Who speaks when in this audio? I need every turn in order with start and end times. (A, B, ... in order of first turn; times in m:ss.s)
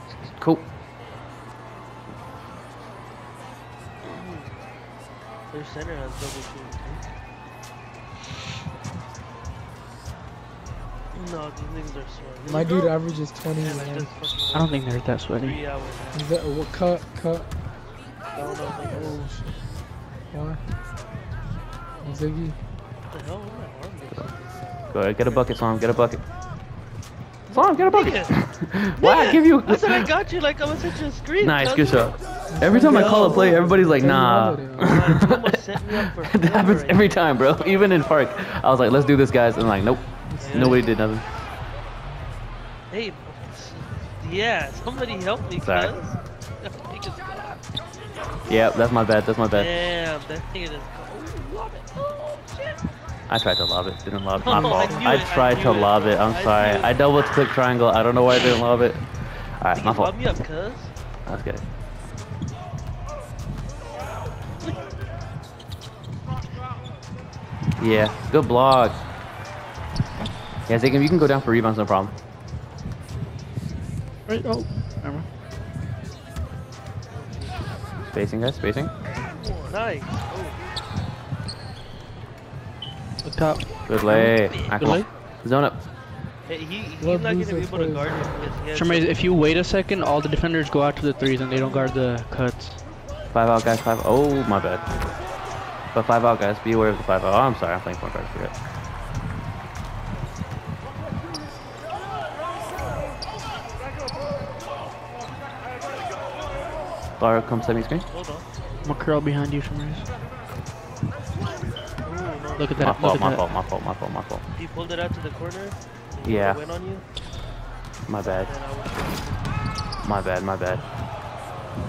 0:00.3-0:00.7 A
0:04.0-0:04.6 B
0:05.5-0:07.0 B
0:11.1-0:16.3 B
0:12.4-0:14.1 C
0:14.5-0:15.6 D
0:16.1-0:17.5 C
0:18.3-0:19.3 B
0:18.8-0:19.7 C
0:20.3-0:20.6 C
0:22.0-0:22.6 C
0:23.1-0:25.5 B
0:24.1-0:26.2 A
0:27.5-0:33.7 B
0:27.5-0:30.1 A
0:31.4-0:41.3 A
0:32.5-0:35.0 C
0:34.8-0:37.3 B
0:40.3-0:40.8 C
0:40.4-0:40.9 B
0:42.9-0:47.6 B
0:45.6-0:45.9 A
0:48.4-0:49.7 A
0:49.5-0:52.8 B
0:53.3-1:00.4 A
0:54.4-0:57.0 B
0:54.4-0:55.2 C
0:59.7-1:01.0 B
1:01.2-1:01.6 A
1:07.8-1:09.0 A
1:10.6-1:12.1 A
1:14.3-1:15.3 D
1:17.1-1:17.8 B
1:18.1-1:18.9 A
1:19.2-1:20.6 B
1:23.2-1:25.1 D
1:23.9-1:25.8 A
1:24.4-1:24.8 B
1:26.4-1:29.2 B
1:27.0-1:28.5 C
1:28.7-1:32.8 D
1:31.5-1:31.9 B
1:33.3-1:35.0 A
1:35.9-1:38.6 A
1:47.2-1:48.1 A
1:48.1-1:49.0 B
1:48.8-1:50.1 D
1:52.0-1:52.9 B
1:52.6-1:53.4 D
1:52.8-1:54.4 A
1:54.5-1:57.1 B
1:56.2-1:56.6 A
1:58.0-1:58.5 A
1:58.2-1:59.7 B
2:00.0-2:00.8 A